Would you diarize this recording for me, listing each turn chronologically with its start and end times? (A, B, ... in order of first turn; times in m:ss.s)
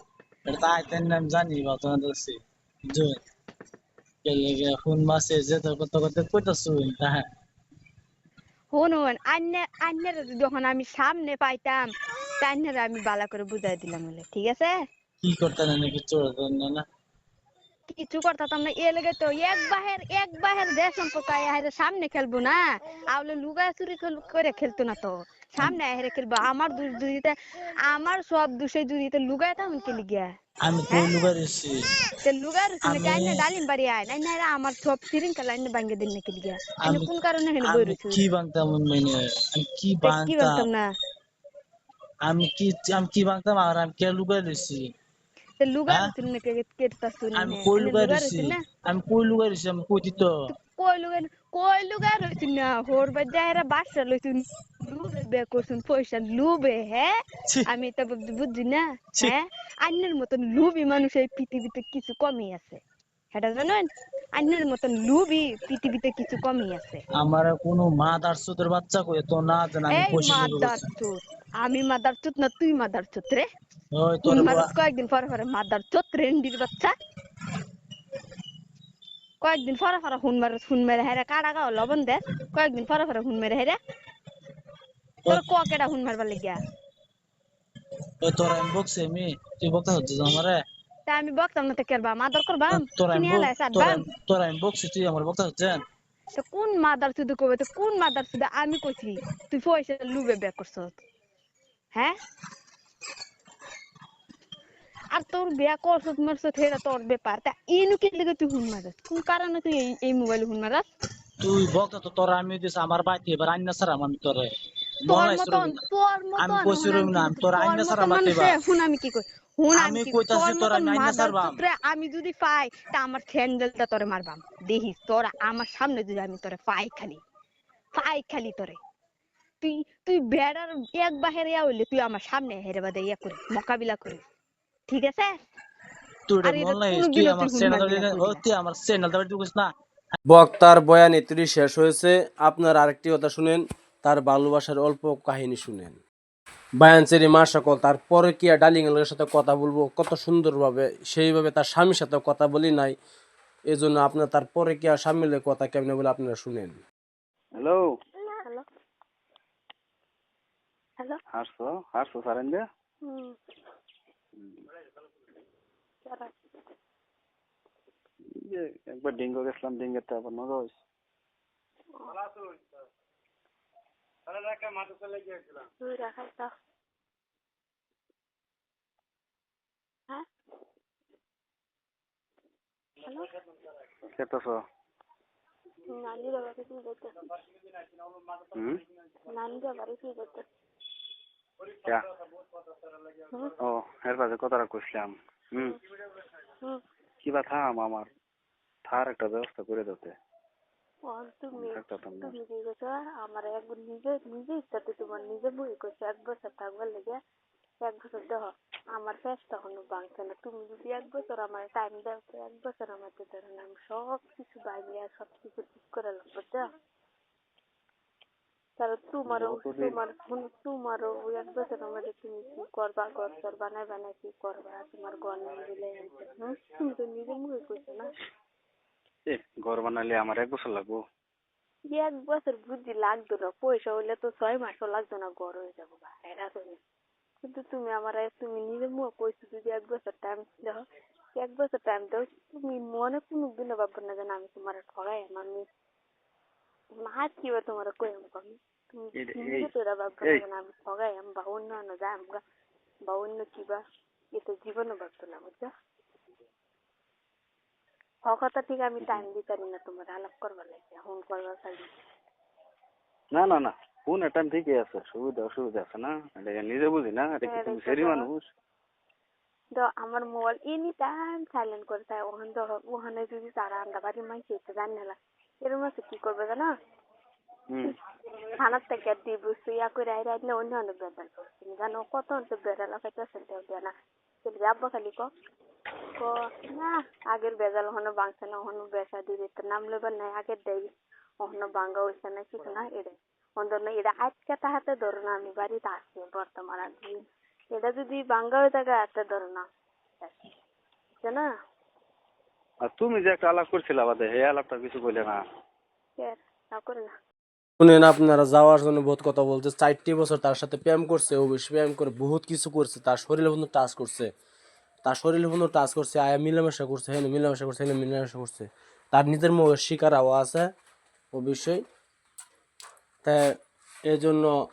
0:00.5-0:03.2 A
0:04.2-0:07.3 A
0:08.7-0:11.8 B
0:12.4-0:14.7 B
0:15.2-0:16.8 A
0:17.9-0:22.6 B
0:23.1-0:27.3 B
0:27.9-0:30.3 B
0:30.6-0:31.8 A
0:32.2-0:38.2 B
0:32.8-0:33.4 A
0:36.8-0:37.1 A
0:37.6-0:40.7 A
0:40.0-0:40.9 B
0:42.2-0:44.9 A
0:45.6-0:48.6 B
0:47.3-0:50.4 A
0:50.5-0:57.1 B
0:57.7-1:02.8 B
1:03.3-1:07.0 B
1:07.2-1:10.8 A
1:09.9-1:13.4 B
1:14.0-1:14.7 A
1:14.3-1:16.9 B
1:19.4-1:23.8 B
1:25.3-1:26.6 B
1:28.2-1:30.6 A
1:31.1-1:34.0 B
1:32.7-1:35.8 A
1:36.4-1:41.0 B
1:45.1-1:50.8 B
1:51.4-1:55.8 A
1:55.1-2:07.2 B
1:56.4-1:58.6 A
1:59.7-2:01.6 A
2:07.9-2:08.8 B
2:09.6-2:14.2 B
2:14.9-2:15.4 B
2:16.3-2:19.7 A
2:16.4-2:18.4 B
2:20.3-2:26.0 C
2:26.8-2:33.0 C
2:33.7-2:36.8 C
2:37.6-2:37.9 D
2:41.3-2:42.6 D
2:43.0-2:43.4 E
2:46.0-2:46.3 E
2:48.4-2:50.8 D
2:54.5-2:54.9 D
2:55.8-2:56.5 E
3:03.0-3:03.3 E
3:04.2-3:04.6 D
3:05.9-3:07.3 E
3:08.5-3:08.8 D
3:09.3-3:10.4 E
3:13.6-3:15.8 D
3:17.2-3:18.1 D
3:18.9-3:20.2 D
3:21.1-3:27.2 E
3:21.5-3:22.4 D
3:27.8-3:36.7 E
3:38.8-3:48.1 E
3:39.3-3:40.0 D
3:49.3-3:51.0 D
3:51.9-3:56.8 E
3:57.4-4:00.8 E
4:01.4-4:05.7 E
4:07.0-4:12.4 E
4:13.1-4:13.8 E
4:14.4-4:15.7 E
4:18.3-4:21.9 E
4:19.0-4:19.2 D
4:23.3-4:28.5 D
4:27.4-4:28.3 E
4:29.7-4:36.7 E
4:37.7-4:38.0 D
4:38.6-4:43.9 E
4:44.4-4:45.3 E
4:46.2-4:50.9 E
4:51.4-4:57.2 E
4:57.8-4:59.7 E
5:00.2-5:00.5 E
5:02.9-5:05.4 D
5:06.2-5:07.1 E
5:07.8-5:14.3 C
5:15.0-5:20.7 C
5:21.3-5:21.8 C
5:24.1-5:24.5 C